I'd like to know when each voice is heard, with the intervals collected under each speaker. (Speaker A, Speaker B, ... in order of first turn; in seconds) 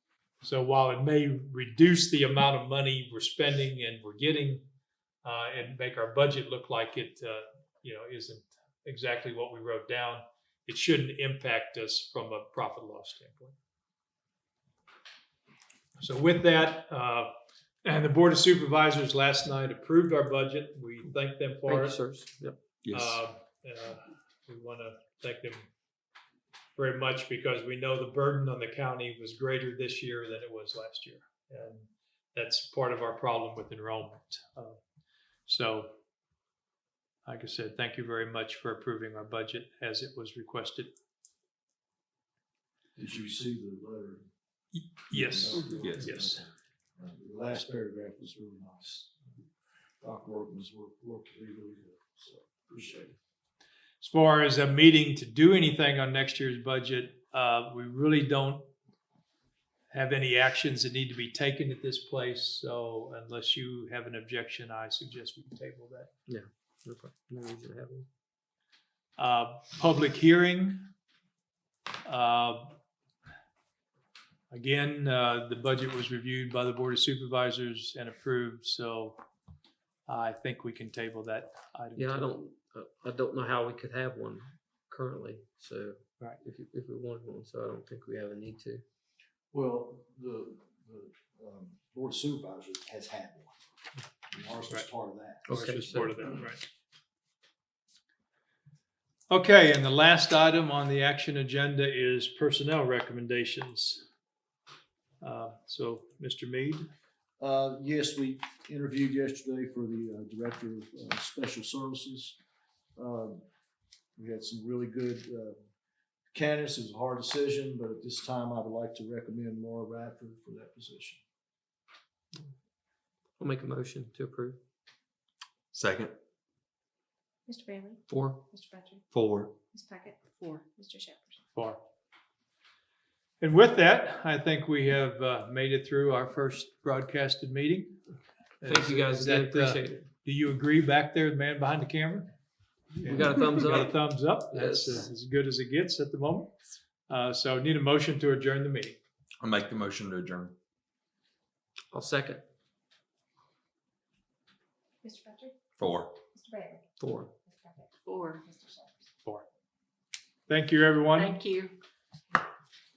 Speaker A: 0.4-4.6, 5.2-13.5, 16.0-17.3, 17.8-22.0, 22.9-25.7, 26.8-34.8, 35.5-35.9, 37.2-40.9, 44.7-46.5, 54.0-58.7, 59.9-66.1, 69.2-70.9, 72.0-72.8, 74.5-79.2, 80.1-82.3, 95.5-96.7, 99.3-104.0, 105.2-106.9, 131.5-131.8, 133.4-138.0, 138.6-142.3, 143.0-146.5, 147.1-149.0, 160.5-161.3
Speaker B: 21.6-22.6, 66.3-68.0, 82.0-88.8, 95.5-96.2, 123.4-124.6, 128.1-128.4, 138.6-140.1, 143.0-145.1, 151.9-152.4, 157.0-157.3
Speaker C: 22.8-23.2, 125.7-126.1, 129.1-129.6, 149.4-150.5, 155.8-156.2
Speaker D: 43.0-44.2, 45.1-49.1, 50.0-53.1, 89.5-93.5, 94.3-95.8, 107.4-112.4, 112.9-113.4, 114.2-115.6, 116.3-121.2
Speaker E: 127.5-129.0, 129.7-131.4, 155.0-155.6, 156.3-156.8, 157.4-159.0, 161.2-161.7